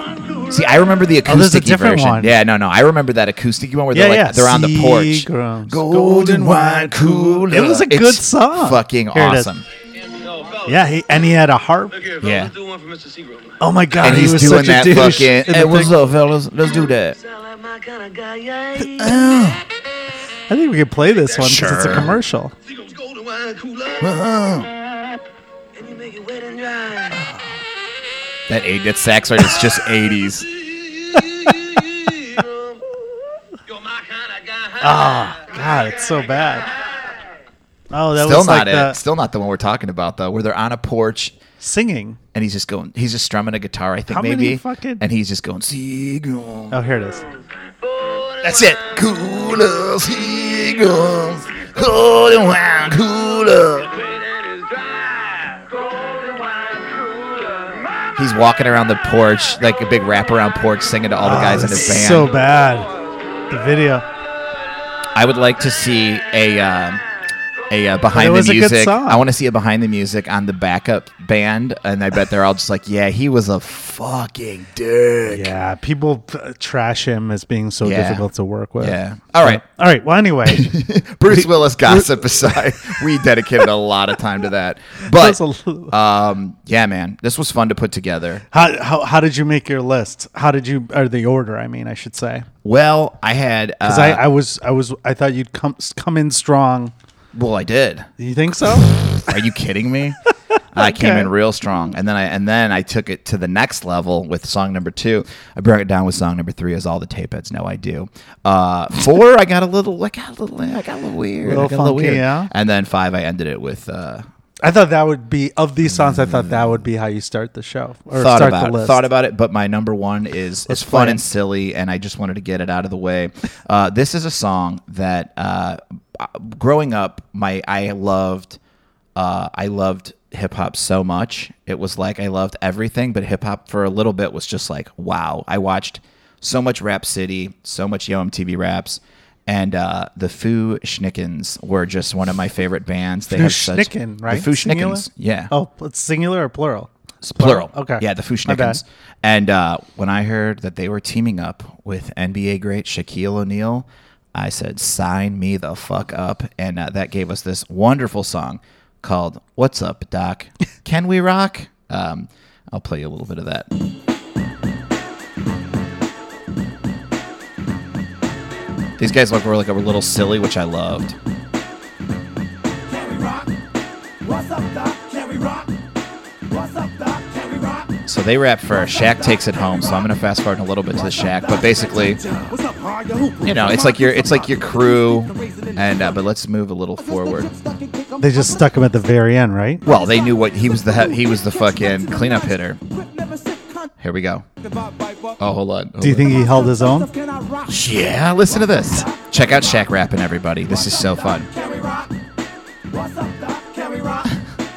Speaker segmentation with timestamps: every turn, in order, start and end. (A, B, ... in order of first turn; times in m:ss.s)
0:00.4-0:09.6 A
0:01.2-0:02.3 B
0:03.9-0:09.5 B
0:10.6-0:12.0 B
0:12.2-0:12.5 A
0:12.2-0:13.3 C
0:13.6-0:15.9 B
0:14.0-0:17.2 A
0:17.2-0:19.0 C
0:18.9-0:19.6 A
0:20.5-0:22.5 B
0:21.3-0:22.2 A
0:23.2-0:23.8 C
0:24.0-0:24.7 A
0:25.8-0:27.1 C
0:28.5-0:30.5 A
0:33.7-0:34.7 C
0:34.8-0:36.7 B
0:37.9-0:39.0 B
0:38.1-0:41.4 A
0:41.6-0:42.2 B
0:42.3-0:46.8 A
0:44.1-0:45.0 B
0:46.7-0:47.3 B
0:48.4-0:54.0 A
0:56.1-0:56.9 C
0:58.2-1:02.3 A
1:01.2-1:02.9 B
1:03.5-1:04.0 B
1:05.1-1:07.0 A
1:07.7-1:15.5 A
1:08.1-1:09.2 B
1:15.3-1:20.7 B
1:17.8-1:18.2 A
1:18.8-1:19.6 A
1:20.4-1:28.4 A
1:21.3-1:23.0 B
1:25.0-1:25.9 B
1:28.5-1:32.5 B
1:32.6-1:34.2 A
1:33.8-1:36.9 B
1:37.3-1:38.1 A
1:38.2-1:39.4 B
1:39.1-1:40.2 A
1:40.7-1:54.3 A
1:40.8-1:41.3 B
1:51.4-1:52.5 B
1:54.6-1:59.0 B
1:55.9-1:56.6 A
1:58.1-2:08.6 A
2:00.7-2:01.2 B
2:09.2-2:25.5 A
2:23.3-2:28.8 B
2:27.2-2:43.7 A
2:49.0-2:51.2 A
2:52.9-2:53.5 D
2:54.2-2:55.7 D
2:56.4-2:57.9 D
2:58.0-3:02.2 A
2:58.8-3:00.1 D
3:00.9-3:06.2 D
3:03.4-3:07.5 A
3:07.0-3:08.7 D
3:08.2-3:09.8 B
3:09.8-3:12.8 A
3:09.8-3:13.9 D
3:14.0-3:14.4 A
3:14.6-3:15.4 D
3:15.4-3:16.4 A
3:16.0-3:17.1 B
3:16.2-3:17.8 D
3:17.7-3:21.5 A
3:18.5-3:19.8 D
3:20.7-3:22.1 D
3:22.9-3:24.4 D